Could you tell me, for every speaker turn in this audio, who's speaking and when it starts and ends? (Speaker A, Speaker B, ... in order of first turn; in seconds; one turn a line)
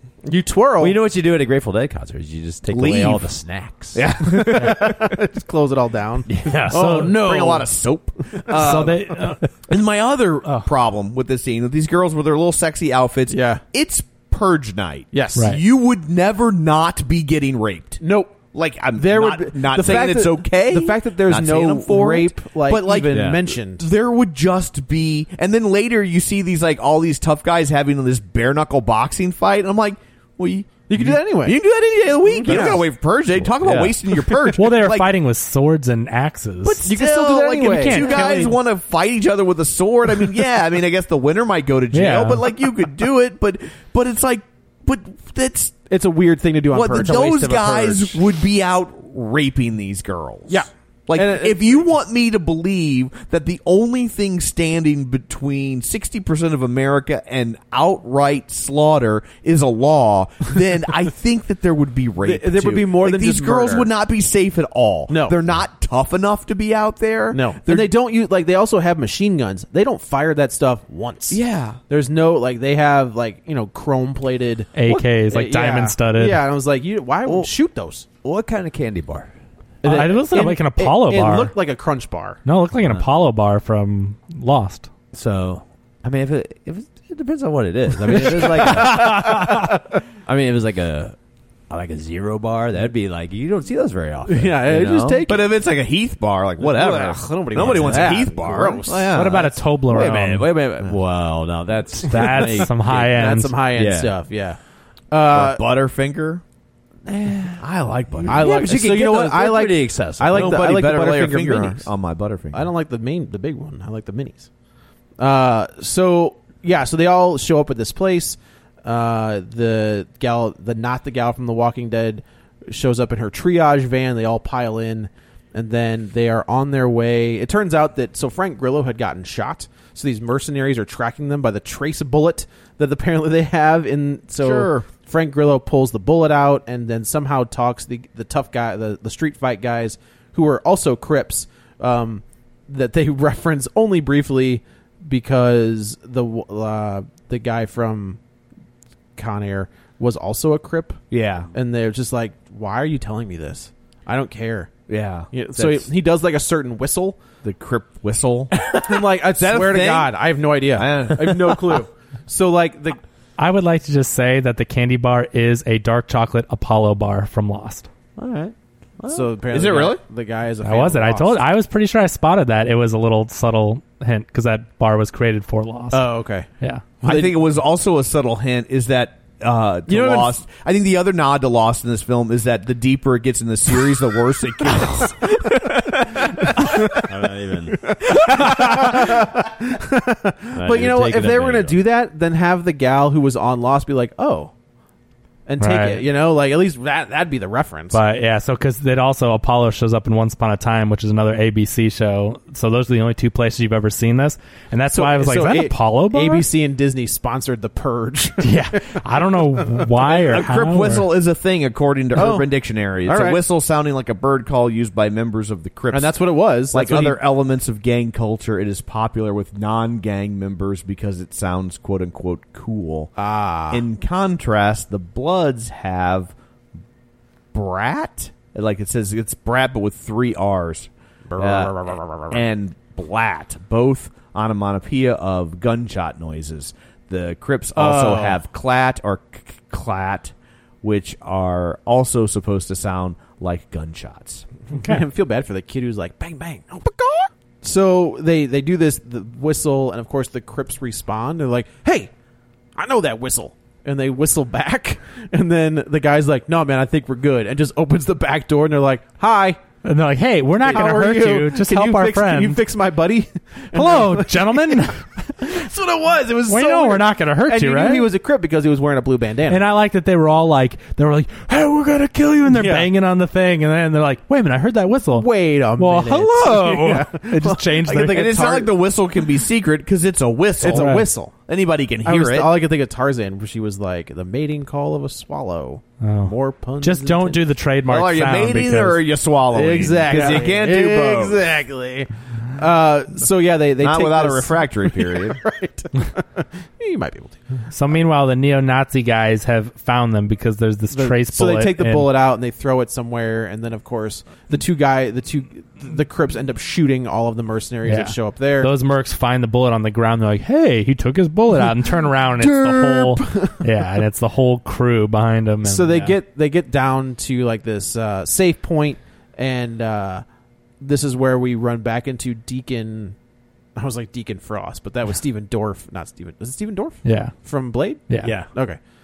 Speaker A: 0.2-1.0
Speaker B: 0.8-4.0
Speaker C: 2.7-3.3
Speaker C: 3.9-5.1
Speaker A: 4.3-9.0
Speaker B: 6.3-7.0
Speaker D: 6.7-7.1
Speaker C: 6.8-9.0
Speaker D: 8.5-9.4
Speaker C: 9.7-18.0
Speaker A: 13.3-13.6
Speaker A: 15.1-15.5
Speaker D: 15.4-15.6
Speaker A: 18.0-23.9
Speaker C: 18.5-35.1
Speaker B: 23.1-23.4
Speaker A: 30.9-31.6
Speaker A: 32.4-32.9
Speaker B: 33.5-34.0
Speaker D: 34.6-37.0
Speaker C: 36.6-45.8
Speaker A: 36.8-38.5
Speaker D: 37.5-38.5
Speaker D: 41.9-42.4
Speaker A: 45.9-48.2
Speaker C: 46.7-67.9
Speaker A: 50.5-51.8
Speaker A: 62.2-63.9
Speaker A: 65.1-65.4
Speaker A: 67.3-78.1
Speaker C: 71.3-71.8
Speaker D: 74.8-76.4
Speaker B: 78.2-79.3
Speaker A: 79.8-82.4
Speaker D: 79.8-81.5
Speaker D: 82.5-84.9
Speaker B: 85.1-89.5
Speaker A: 88.1-89.7
Speaker B: 90.3-91.2
Speaker B: 91.7-95.2
Speaker A: 94.3-95.5
Speaker C: 95.2-99.5
Speaker A: 96.6-99.1
Speaker B: 97.6-98.6
Speaker D: 99.1-100.5
Speaker B: 99.1-103.1
Speaker D: 102.1-103.5
Speaker A: 102.4-104.6
Speaker B: 103.7-104.1
Speaker A: 105.1-105.6
Speaker C: 105.3-106.4
Speaker B: 107.1-107.6
Speaker C: 107.6-108.8
Speaker B: 108.2-110.5
Speaker A: 108.3-111.9
Speaker C: 110.3-112.7
Speaker A: 112.5-114.5
Speaker A: 115.2-148.2
Speaker C: 134.4-134.9
Speaker A: 149.2-151.0
Speaker C: 151.1-151.5
Speaker A: 151.5-154.7
Speaker C: 154.9-155.9
Speaker A: 155.3-157.2
Speaker C: 157.4-160.2
Speaker A: 158.7-163.0
Speaker C: 160.7-161.8
Speaker D: 163.4-167.9
Speaker B: 168.2-169.2
Speaker A: 169.1-171.4
Speaker C: 169.5-170.0
Speaker D: 170.6-176.1
Speaker A: 175.9-176.5
Speaker A: 177.0-177.4
Speaker C: 177.0-186.8
Speaker A: 179.9-180.3
Speaker A: 185.2-185.6
Speaker A: 186.6-187.0
Speaker B: 187.1-187.9
Speaker A: 187.8-194.5
Speaker C: 188.3-188.8
Speaker B: 190.6-191.8
Speaker A: 195.5-198.0
Speaker D: 195.6-196.0
Speaker D: 197.9-206.5
Speaker A: 204.9-209.9
Speaker D: 208.4-211.1
Speaker C: 210.1-216.2
Speaker A: 212.2-213.4
Speaker A: 215.9-217.2
Speaker C: 216.7-223.1
Speaker A: 223.2-223.8
Speaker C: 223.7-226.3
Speaker C: 227.5-244.5
Speaker A: 231.3-232.4
Speaker A: 237.8-238.4
Speaker A: 244.7-252.1
Speaker D: 244.8-245.0
Speaker A: 252.8-259.6
Speaker D: 259.8-262.6
Speaker A: 260.6-264.9
Speaker D: 263.7-265.6
Speaker A: 265.4-269.7
Speaker D: 266.5-268.1
Speaker D: 269.5-278.3
Speaker A: 272.5-272.9
Speaker A: 275.2-278.7
Speaker C: 277.9-282.5
Speaker A: 280.6-281.4
Speaker D: 280.7-281.1
Speaker A: 282.0-287.4
Speaker D: 286.0-289.0
Speaker C: 287.9-291.4
Speaker A: 289.5-297.4
Speaker C: 293.8-295.4
Speaker D: 297.7-302.1
Speaker A: 300.9-308.7
Speaker D: 307.9-316.1
Speaker A: 312.4-313.6
Speaker A: 315.6-320.2
Speaker A: 320.8-323.2
Speaker A: 323.8-328.8
Speaker D: 327.1-327.3